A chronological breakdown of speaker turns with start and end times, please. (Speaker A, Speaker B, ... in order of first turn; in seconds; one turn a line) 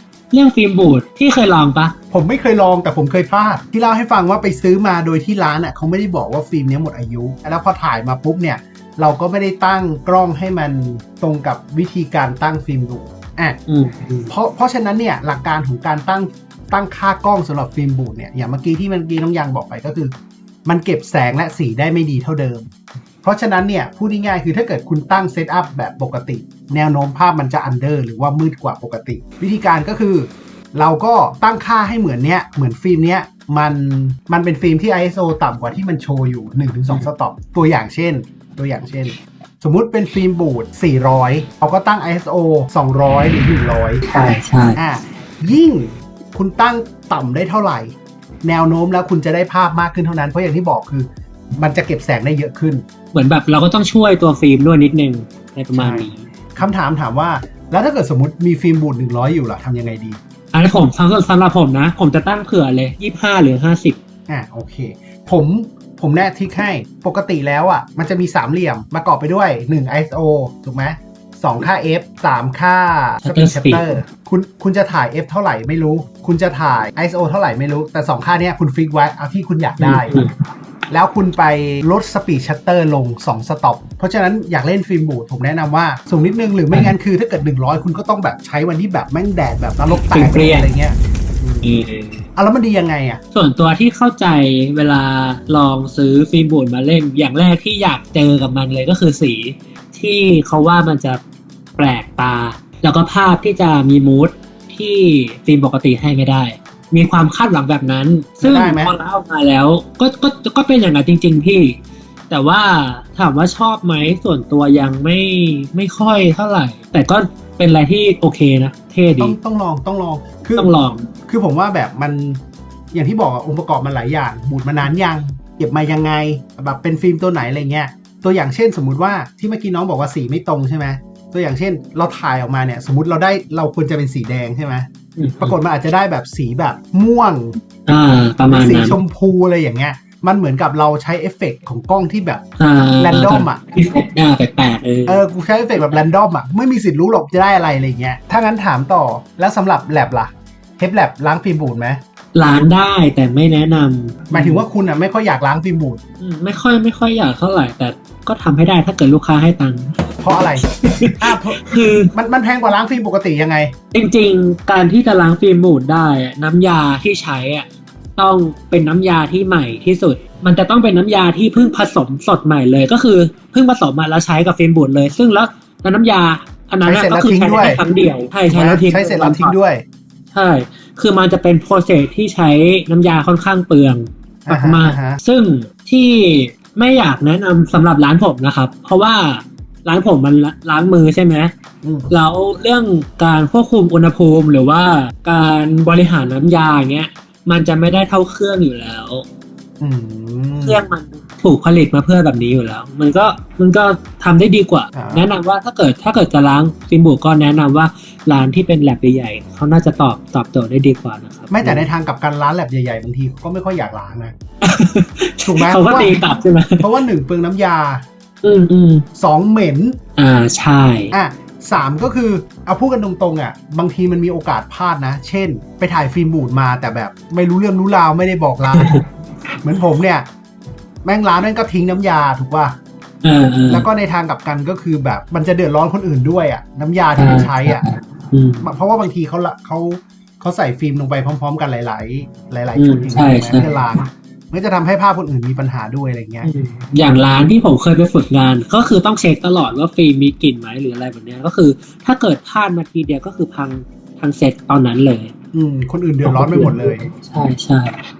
Speaker A: 0.3-1.9
Speaker B: 2.1-13.6
Speaker A: 13.7-14.3
Speaker B: 14.3-20.1
Speaker B: 20.6-22.7
Speaker B: 23.2-44.0
Speaker A: 44.0-44.8
Speaker B: 44.8-52.8
Speaker A: 53.1-56.4
Speaker B: 55.7-60.2
Speaker A: 60.5-64.0
Speaker B: 64.3-80.1
Speaker A: 73.2-73.9
Speaker A: 79.8-80.3
Speaker B: 80.9-91.7
Speaker A: 89.9-90.7
Speaker A: 91.6-92.2
Speaker B: 92.3-93.2
Speaker A: 93.3-101.2
Speaker A: 101.8-111.8
Speaker B: 108.4-108.9
Speaker A: 112.3-119.3
Speaker B: 119.2-120.7
Speaker A: 120.6-121.1
Speaker B: 121.3-122.4
Speaker B: 122.9-134.8
Speaker A: 135.2-135.6
Speaker B: 135.4-137.6
Speaker A: 137.9-139.0
Speaker B: 138.5-142.4
Speaker A: 142.6-145.2
Speaker B: 143.0-143.6
Speaker B: 145.1-152.0
Speaker A: 152.3-154.7
Speaker B: 154.3-156.0
Speaker A: 156.2-159.9
Speaker B: 160.2-160.6
Speaker A: 160.6-162.1
Speaker B: 161.2-163.7
Speaker A: 163.9-179.5
Speaker B: 176.8-177.8
Speaker B: 178.5-179.8
Speaker A: 180.3-191.5
Speaker B: 184.4-185.2
Speaker B: 191.8-192.1
Speaker A: 192.1-199.2
Speaker B: 199.8-200.8
Speaker A: 200.6-211.8
Speaker B: 204.9-205.3
Speaker B: 211.5-214.3
Speaker A: 214.6-216.9
Speaker B: 215.4-216.2
Speaker B: 216.8-218.0
Speaker A: 218.4-219.1
Speaker B: 219.2-219.9
Speaker A: 220.2-221.1
Speaker B: 221.1-228.9
Speaker A: 228.7-229.0
Speaker B: 229.6-230.2
Speaker B: 231.0-232.7
Speaker A: 233.2-233.8
Speaker B: 233.7-237.8
Speaker A: 237.2-238.6
Speaker B: 238.6-246.5
Speaker A: 242.8-243.8
Speaker A: 246.4-255.3
Speaker B: 255.5-257.1
Speaker A: 256.2-258.0